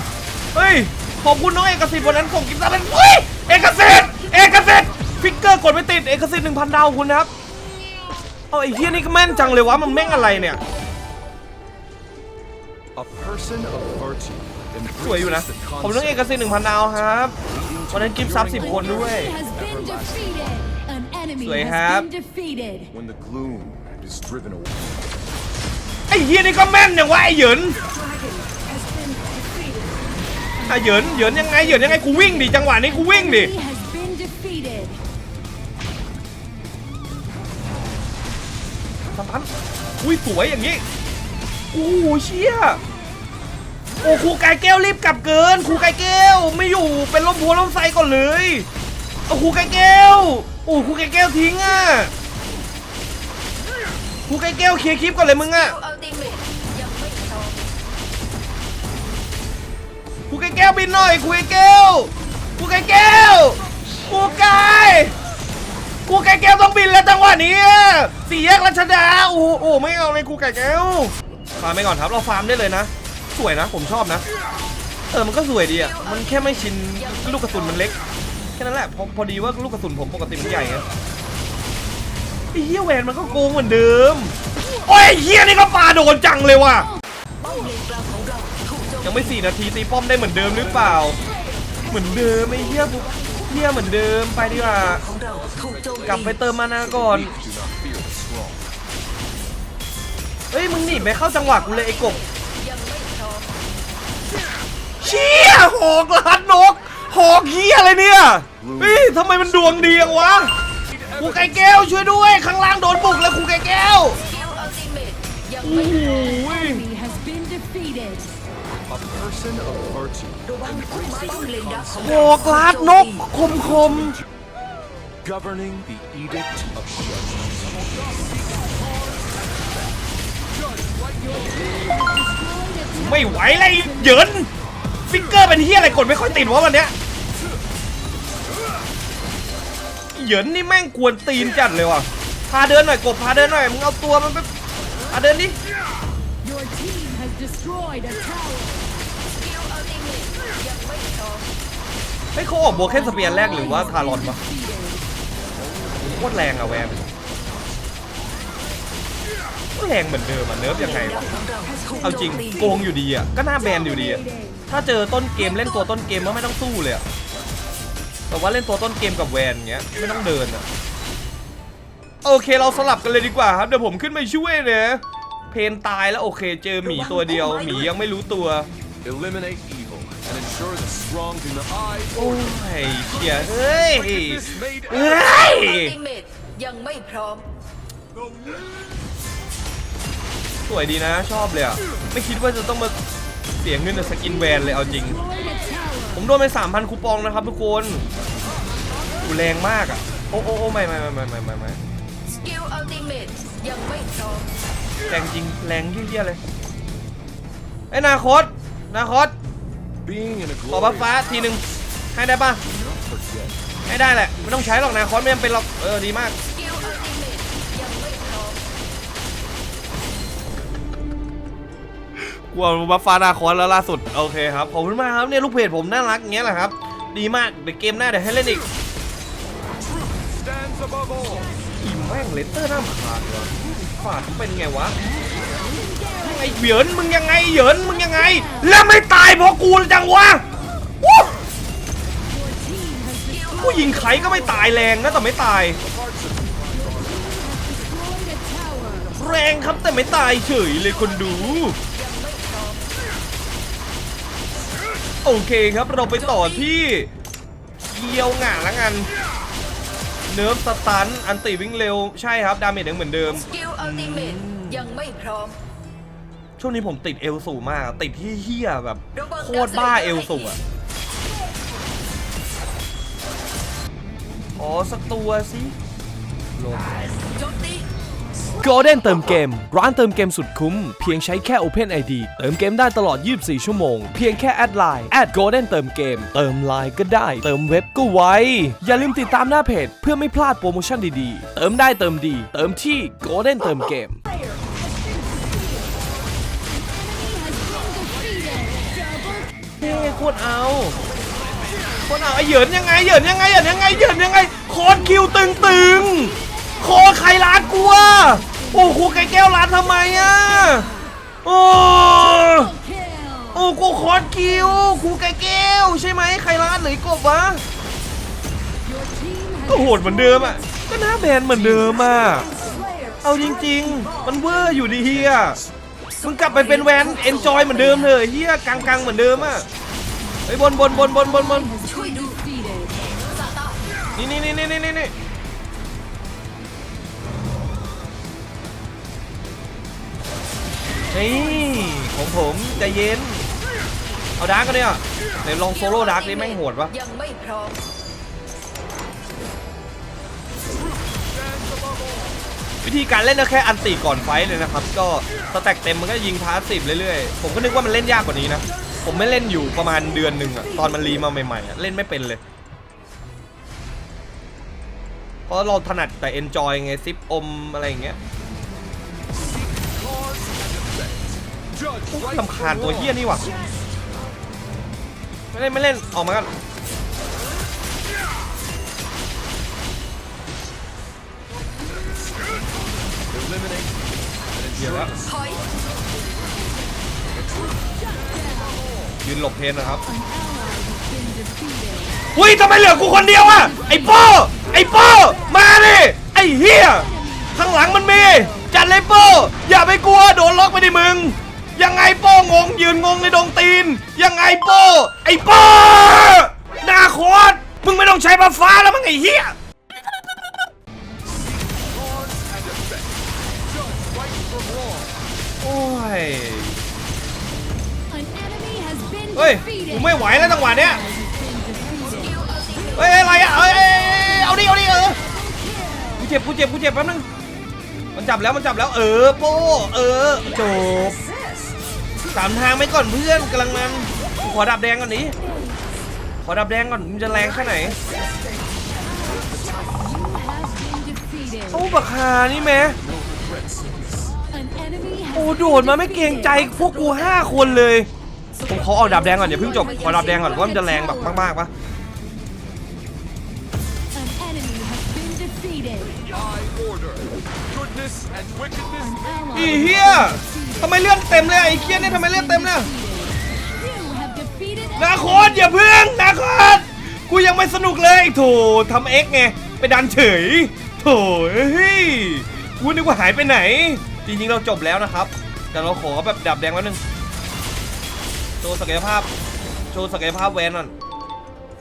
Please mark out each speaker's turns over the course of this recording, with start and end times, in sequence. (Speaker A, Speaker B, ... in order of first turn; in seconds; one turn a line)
Speaker A: 0.5-7.3
Speaker A: 8.5-10.6
Speaker B: 12.9-16.8
Speaker A: 15.0-17.3
Speaker B: 17.3-20.6
Speaker A: 17.9-19.3
Speaker C: 18.6-22.9
Speaker A: 21.4-22.1
Speaker B: 22.9-25.1
Speaker A: 26.1-27.8
Speaker C: 28.0-29.9
Speaker C: 30.6-35.0
Speaker A: 30.7-33.5
Speaker A: 39.1-39.5
Speaker A: 40.0-40.8
Speaker A: 41.7-42.8
Speaker A: 44.0-48.7
Speaker A: 49.3-52.1
Speaker A: 54.3-55.8
Speaker D: 55.5-57.7
Speaker A: 60.3-65.1
Speaker A: 66.0-74.2
Speaker A: 75.1-78.0
Speaker D: 75.8-77.8
Speaker A: 78.6-80.8
Speaker A: 82.5-86.9
Speaker D: 87.4-89.2
Speaker A: 89.0-91.2
Speaker A: 91.9-95.0
Speaker B: 93.5-93.9
Speaker D: 95.1-95.8
Speaker B: 95.1-98.7
Speaker A: 96.0-97.3
Speaker A: 100.5-102.2
Speaker D: 101.0-103.7
Speaker A: 105.0-110.5
Speaker B: 108.6-110.2
Speaker B: 110.9-112.0
Speaker A: 111.2-114.2
Speaker D: 114.2-116.4
Speaker A: 115.6-116.8
Speaker C: 116.0-118.3
Speaker B: 118.9-122.7
Speaker D: 120.5-123.2
Speaker A: 122.0-124.1
Speaker B: 123.4-124.3
Speaker B: 125.2-131.9
Speaker C: 131.2-134.2
Speaker A: 132.9-134.5
Speaker A: 135.1-136.9
Speaker A: 140.1-144.5
Speaker A: 145.1-145.6
Speaker C: 146.4-149.0
Speaker D: 149.2-151.5
Speaker A: 152.3-154.4
Speaker C: 152.8-155.1
Speaker B: 155.6-157.7
Speaker A: 156.0-157.1
Speaker A: 159.7-161.3
Speaker D: 160.7-162.7
Speaker C: 161.9-162.5
Speaker A: 162.0-167.0
Speaker C: 163.6-164.7
Speaker A: 168.3-170.6
Speaker A: 172.2-178.7
Speaker D: 176.9-177.9
Speaker B: 179.0-185.4
Speaker A: 182.1-185.9
Speaker D: 185.4-187.5
Speaker A: 190.7-192.9
Speaker A: 193.6-195.2
Speaker C: 194.1-196.2
Speaker A: 196.1-198.0
Speaker A: 199.2-201.8
Speaker D: 202.2-204.5
Speaker A: 205.1-206.4
Speaker A: 207.9-209.3
Speaker B: 210.0-211.6
Speaker A: 210.7-211.6
Speaker A: 212.1-212.6
Speaker B: 212.6-213.6
Speaker A: 213.9-216.3
Speaker D: 216.4-218.7
Speaker A: 222.5-228.6
Speaker B: 230.0-231.5
Speaker A: 231.8-234.9
Speaker C: 235.0-236.7
Speaker A: 236.2-240.4
Speaker C: 238.1-238.7
Speaker C: 242.3-244.0
Speaker D: 243.3-245.1
Speaker A: 243.6-245.8
Speaker B: 245.7-247.3
Speaker C: 246.7-249.1
Speaker A: 249.1-251.8
Speaker D: 250.8-253.0
Speaker A: 255.2-257.1
Speaker D: 256.1-256.6
Speaker A: 257.8-259.1
Speaker A: 260.3-264.9
Speaker D: 263.3-265.6
Speaker A: 266.6-270.6
Speaker D: 269.1-270.6
Speaker A: 274.5-275.7
Speaker A: 276.6-277.0
Speaker D: 277.4-277.9
Speaker A: 278.6-294.2
Speaker C: 296.8-299.4
Speaker A: 299.8-300.9
Speaker A: 302.0-310.9
Speaker C: 305.2-311.0
Speaker A: 311.4-312.7
Speaker C: 312.2-313.6
Speaker A: 313.5-317.6
Speaker C: 318.8-320.7
Speaker A: 319.7-322.5
Speaker C: 321.6-324.1
Speaker A: 323.2-325.6
Speaker A: 326.2-329.6
Speaker C: 326.6-328.0
Speaker D: 326.8-327.5
Speaker A: 330.5-331.7
Speaker C: 330.8-333.0
Speaker D: 333.0-333.8
Speaker A: 334.1-335.1
Speaker A: 341.1-343.5
Speaker A: 344.4-346.9
Speaker D: 345.6-347.9
Speaker B: 351.4-352.2
Speaker A: 352.8-362.4
Speaker A: 365.5-368.2
Speaker B: 369.3-373.3
Speaker A: 372.1-373.5
Speaker A: 375.5-376.5
Speaker B: 382.2-386.6
Speaker A: 384.8-385.1
Speaker D: 385.2-385.6
Speaker B: 387.3-389.1
Speaker C: 388.0-388.8
Speaker A: 389.2-390.0
Speaker C: 390.1-392.2
Speaker A: 392.3-409.5
Speaker C: 393.0-395.7
Speaker C: 396.8-398.7
Speaker B: 411.3-415.2
Speaker A: 415.6-416.8
Speaker C: 418.1-422.4
Speaker A: 419.3-421.0
Speaker D: 422.1-423.8
Speaker A: 422.9-425.2
Speaker C: 425.2-426.2
Speaker A: 426.2-427.2
Speaker A: 428.1-431.2
Speaker A: 432.3-435.3
Speaker C: 435.5-435.8
Speaker A: 436.4-438.0
Speaker C: 438.9-441.8
Speaker B: 439.3-439.9
Speaker A: 441.7-443.0
Speaker B: 443.0-444.4
Speaker C: 444.4-446.7
Speaker A: 445.3-448.1
Speaker D: 447.1-447.4
Speaker D: 448.6-450.8
Speaker A: 448.7-451.7
Speaker C: 449.6-451.5
Speaker C: 454.1-456.1
Speaker B: 456.1-459.2
Speaker C: 459.0-465.7
Speaker A: 459.5-462.9
Speaker A: 465.0-477.0
Speaker A: 478.6-479.3
Speaker A: 479.9-480.9